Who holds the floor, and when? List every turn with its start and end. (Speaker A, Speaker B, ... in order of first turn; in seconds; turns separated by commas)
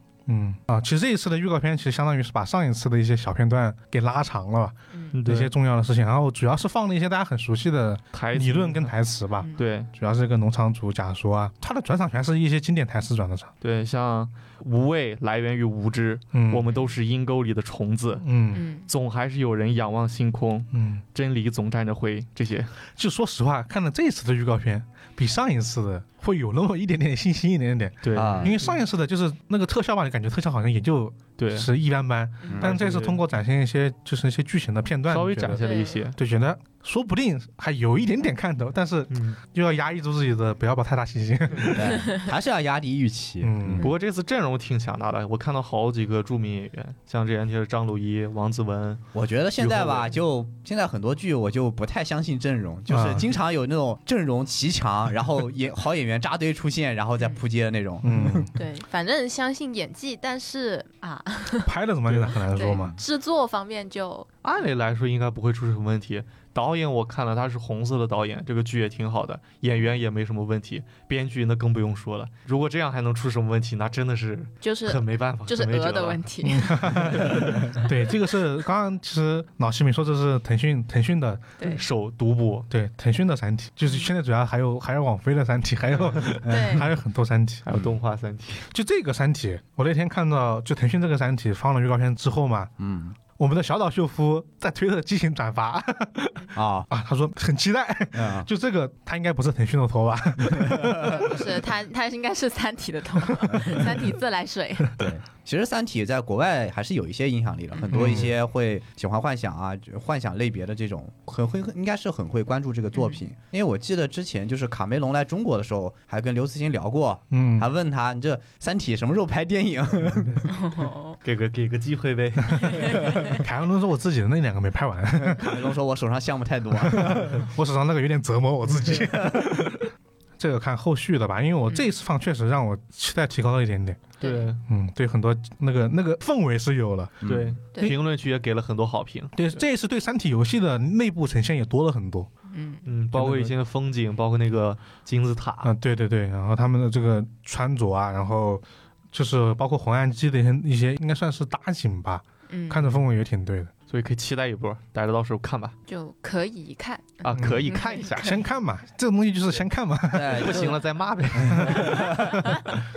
Speaker A: 0.3-13.5, Speaker B: 5.1-5.5, Speaker B: 8.1-8.9, Speaker B: 9.6-9.9, Speaker B: 13.6-18.2, Speaker A: 16.3-16.7, Speaker A: 18.2-18.7, Speaker C: 18.5-18.9, Speaker B: 18.9-22.7, Speaker A: 20.7-21.0, Speaker A: 22.9-42.2, Speaker B: 28.0-28.8, Speaker D: 28.1-28.6, Speaker B: 31.4-31.7, Speaker B: 32.6-33.2, Speaker B: 35.1-36.2, Speaker C: 35.5-36.0, Speaker B: 39.1-39.4, Speaker D: 41.7-43.9, Speaker A: 43.4-43.9, Speaker B: 43.8-49.0, Speaker D: 49.1-58.5, Speaker B: 49.6-50.1, Speaker A: 52.9-53.3, Speaker A: 58.0-58.5, Speaker C: 58.5-64.3, Speaker A: 61.6-63.0, Speaker B: 64.4-76.2, Speaker C: 74.6-76.9, Speaker A: 76.4-81.5, Speaker B: 77.0-77.7, Speaker B: 81.6-82.7, Speaker A: 82.7-87.7, Speaker D: 86.4-86.8, Speaker C: 86.5-86.8, Speaker B: 87.6-88.7, Speaker A: 88.7-92.7, Speaker D: 92.8-93.2, Speaker A: 93.3-101.4, Speaker D: 96.5-96.9, Speaker D: 98.1-98.5, Speaker D: 100.7-101.1, Speaker C: 101.0-104.9, Speaker D: 103.5-103.8, Speaker D: 105.0-120.5, Speaker C: 107.7-108.1, Speaker A: 107.9-108.3, Speaker A: 117.3-117.7, Speaker C: 120.6-121.2, Speaker B: 121.2-123.1, Speaker A: 122.5-125.6, Speaker C: 122.7-123.1, Speaker D: 125.3-127.4, Speaker A: 126.8-134.0, Speaker B: 134.2-134.6, Speaker C: 134.2-134.5, Speaker A: 134.7-137.2, Speaker D: 137.2-137.5, Speaker B: 137.2-139.6, Speaker A: 139.3-142.3, Speaker C: 142.5-142.8, Speaker B: 142.8-145.7, Speaker A: 143.1-143.5, Speaker A: 145.6-153.7, Speaker C: 152.5-152.9, Speaker B: 153.9-155.7, Speaker C: 155.9-158.1, Speaker B: 157.2-158.4, Speaker A: 157.3-160.7, Speaker D: 160.1-160.8, Speaker B: 160.3-162.1, Speaker D: 161.4-162.3, Speaker A: 161.4-162.8